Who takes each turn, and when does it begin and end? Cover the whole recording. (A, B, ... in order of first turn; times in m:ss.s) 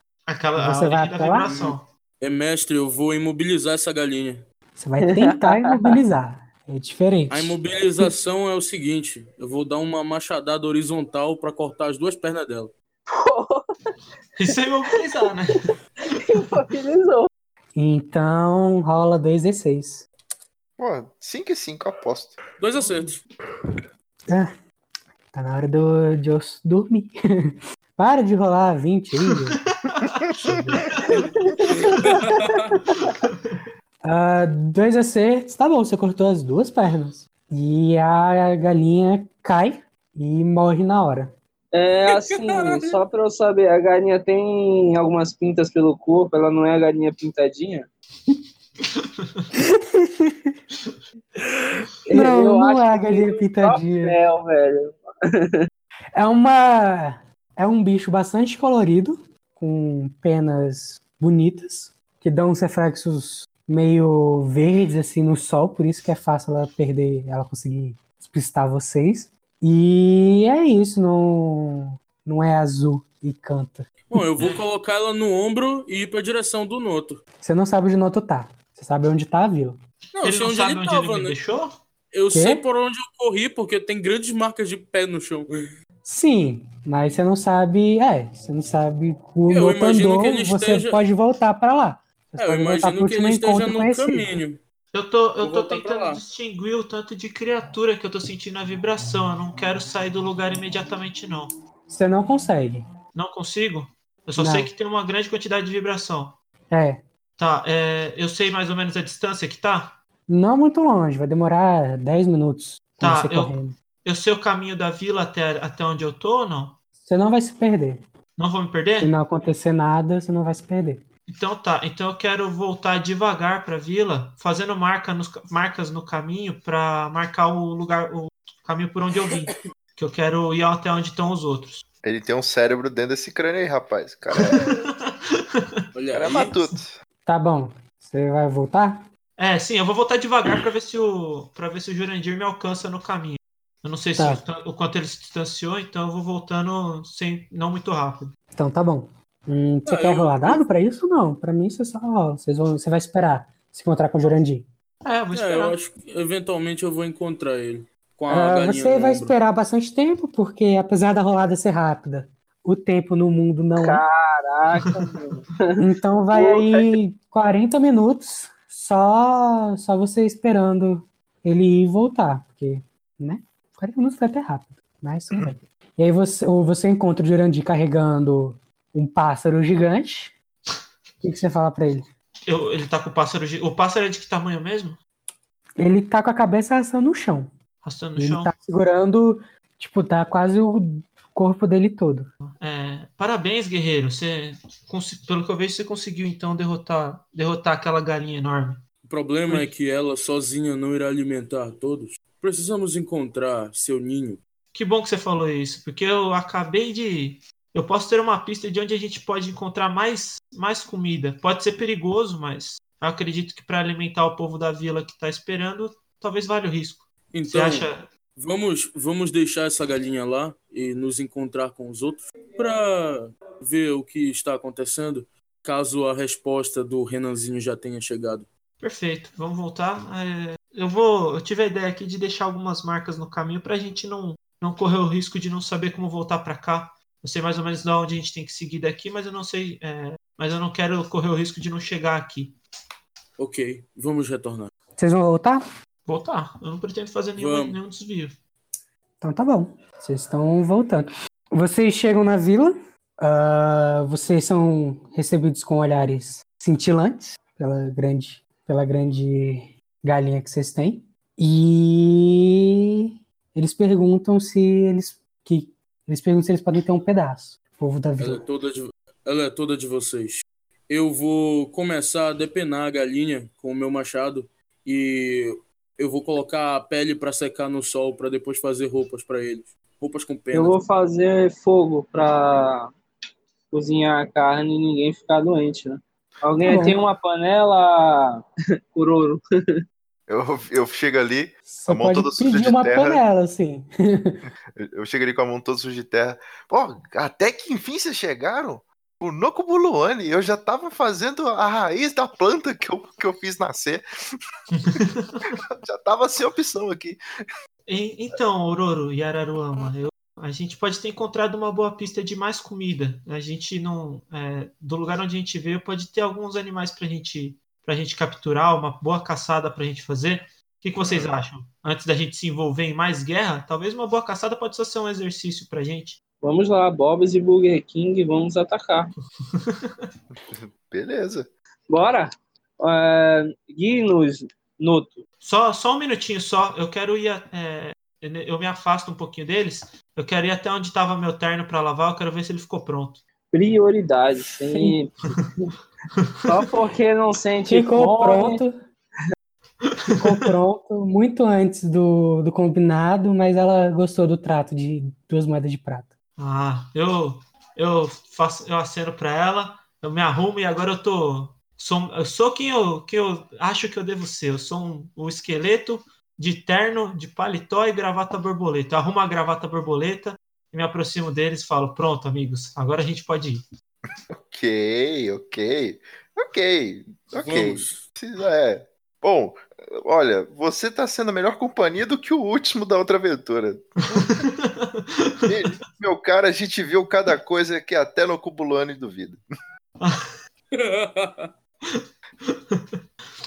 0:00.3-0:01.9 A
0:00.6-0:01.5 B
0:01.4-0:04.4 C
0:04.8-0:08.1 B
0:05.0-0:05.9 D
0:07.3-0:12.7 C
0:13.1-0:13.6 D
0:14.4-0:15.7 A
0:16.3-0:17.3 D
0:17.8-0:20.1 B
0:20.8-0:22.4 E
0:22.6-0:23.2 C
0:22.8-0:23.1 A
0:25.3-0:29.6 B
0:29.5-0:30.1 A
0:30.3-0:30.9 E
0:30.4-0:30.8 B
0:30.7-0:31.2 A
0:31.6-0:32.6 D
0:31.9-0:32.7 C
0:34.0-0:41.3 B
0:41.7-0:47.9 D
0:42.1-0:42.9 C
0:49.0-0:49.5 A
0:49.5-0:50.6 B
0:51.4-0:54.2 B
0:52.1-0:55.7 D
0:56.2-1:13.9 B
1:14.1-1:17.2 C
1:14.4-1:14.6 A
1:17.4-1:19.8 B
1:20.2-1:21.4 C
1:20.2-1:21.7 A
1:22.1-1:25.5 C
1:22.3-1:22.6 B
1:26.0-1:34.3 B
1:29.5-1:31.0 C
1:32.4-1:34.6 C
1:34.9-1:41.5 A
1:35.4-1:36.2 C
1:41.9-1:42.8 B
1:43.2-1:46.4 A
1:44.4-1:44.7 B
1:46.7-1:47.0 B
1:47.4-1:50.0 A
1:50.3-1:53.8 B
1:53.0-1:56.8 A
1:57.0-1:58.0 B
1:58.4-1:59.1 A
1:59.0-2:01.0 B
2:01.3-2:11.8 A
2:12.0-2:14.8 E
2:14.4-2:15.1 A
2:15.9-2:16.5 C
2:16.1-2:17.0 E
2:17.2-2:19.1 B
2:19.4-2:28.3 A
2:24.2-2:24.4 B
2:28.5-2:34.7 B
2:29.8-2:30.6 C
2:35.0-2:35.8 A
2:35.3-2:39.4 C
2:38.3-2:44.0 B
2:43.8-2:45.7 D
2:45.8-3:00.3 B
2:46.3-2:47.0 D
3:01.2-3:02.1 B
3:02.5-3:05.0 A
3:05.8-3:07.5 B
3:07.8-3:08.5 A
3:08.2-3:12.3 B
3:12.6-3:18.8 A
3:19.0-3:24.4 C
3:24.7-3:38.1 A
3:37.3-3:48.5 C
3:48.8-4:02.6 A
4:03.4-4:04.7 C
4:05.0-4:05.6 B
4:06.1-4:08.4 A
4:07.4-4:07.8 C
4:09.2-4:28.4 B
4:28.2-4:40.8 C
4:40.5-4:42.9 D
4:43.7-4:48.4 D
4:46.6-4:47.0 B
4:48.9-4:49.4 D
4:50.3-4:53.2 E
4:51.7-4:54.4 B
4:54.5-5:04.0 E
5:04.7-5:05.6 A
5:05.7-5:07.2 E
5:07.9-5:26.2 A
5:21.0-5:21.3 E
5:26.4-5:29.1 D
5:29.5-5:29.9 A
5:30.4-5:31.5 E
5:31.9-5:35.2 D
5:35.4-5:43.2 A
5:43.5-5:45.7 D
5:46.2-5:46.5 A
5:46.5-5:48.6 D
5:47.7-5:48.8 B
5:49.8-5:50.3 A
5:50.2-5:56.1 B
5:56.4-6:13.6 A
6:14.3-6:24.4 E
6:17.4-6:18.1 C
6:24.1-6:25.6 A
6:25.5-6:29.4 E
6:30.0-6:30.3 A
6:30.7-6:31.5 C
6:31.9-6:32.8 A